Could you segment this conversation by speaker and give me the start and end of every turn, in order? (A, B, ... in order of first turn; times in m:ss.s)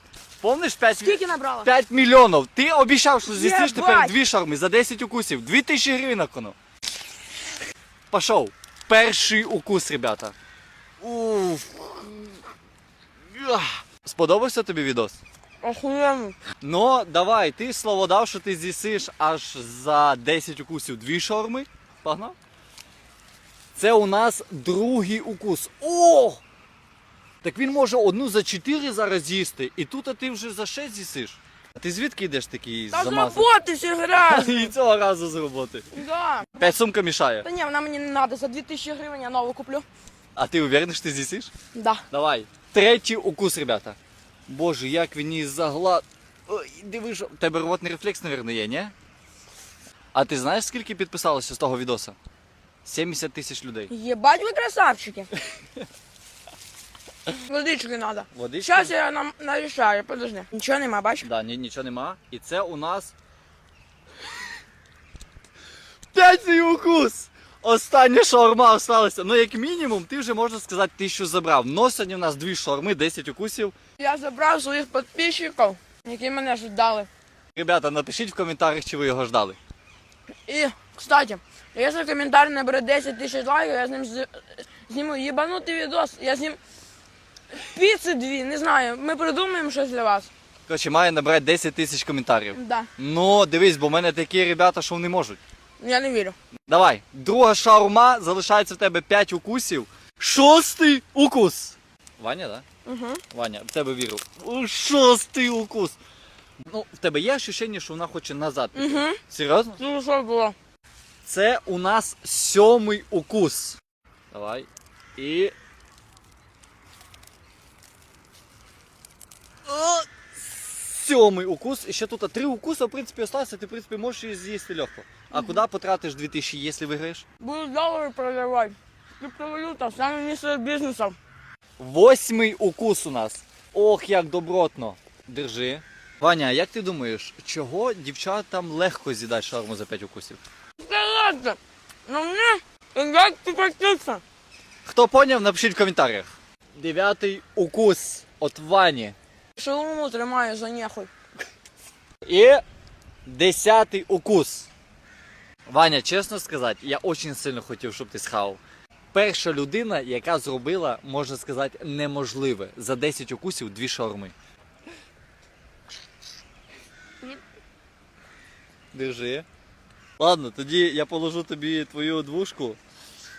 0:00.4-0:06.6 A
0:01.0-0:01.7 B
0:03.3-0:04.2 B
0:08.1-0:10.4 A
0:11.0-0:12.2 A
0:13.3-0:15.2 A
0:15.6-0:16.4 B
0:16.6-0:22.4 A
0:23.8-0:26.4 A
0:27.4-0:33.5 A
0:32.9-0:34.7 B
0:34.2-0:35.9 A
0:35.9-0:36.7 B
0:36.6-0:37.5 A
0:37.4-0:39.9 B
0:40.4-0:41.5 A
0:41.7-0:42.0 B
0:42.1-0:48.9 A
0:50.1-0:52.2 A
0:52.8-0:53.9 A
0:53.9-0:55.3 B
0:57.3-1:01.3 B
0:58.3-0:58.9 A
1:01.2-1:03.1 A
1:06.1-1:13.7 A
1:14.0-1:17.1 B
1:17.6-1:19.6 A
1:20.5-1:26.6 B
1:27.5-1:30.3 B
1:30.7-1:35.4 A
1:32.5-1:32.9 B
1:35.8-1:36.4 B
1:36.7-1:42.6 A
1:42.8-1:43.2 B
1:43.3-1:46.0 A
1:46.7-1:49.8 A
1:48.8-1:49.2 B
1:49.8-1:50.6 B
1:51.2-1:53.8 A
1:54.3-1:55.5 A
1:59.7-2:07.2 A
2:07.4-2:11.2 B
2:11.8-2:20.4 A
2:20.8-2:24.2 B
2:24.8-2:29.2 A
2:29.6-2:31.1 B
2:32.3-2:32.6 A
2:33.2-2:34.7 A
2:35.7-2:38.6 A
2:39.1-2:44.3 A
2:48.9-2:49.5 A
2:50.2-2:52.8 A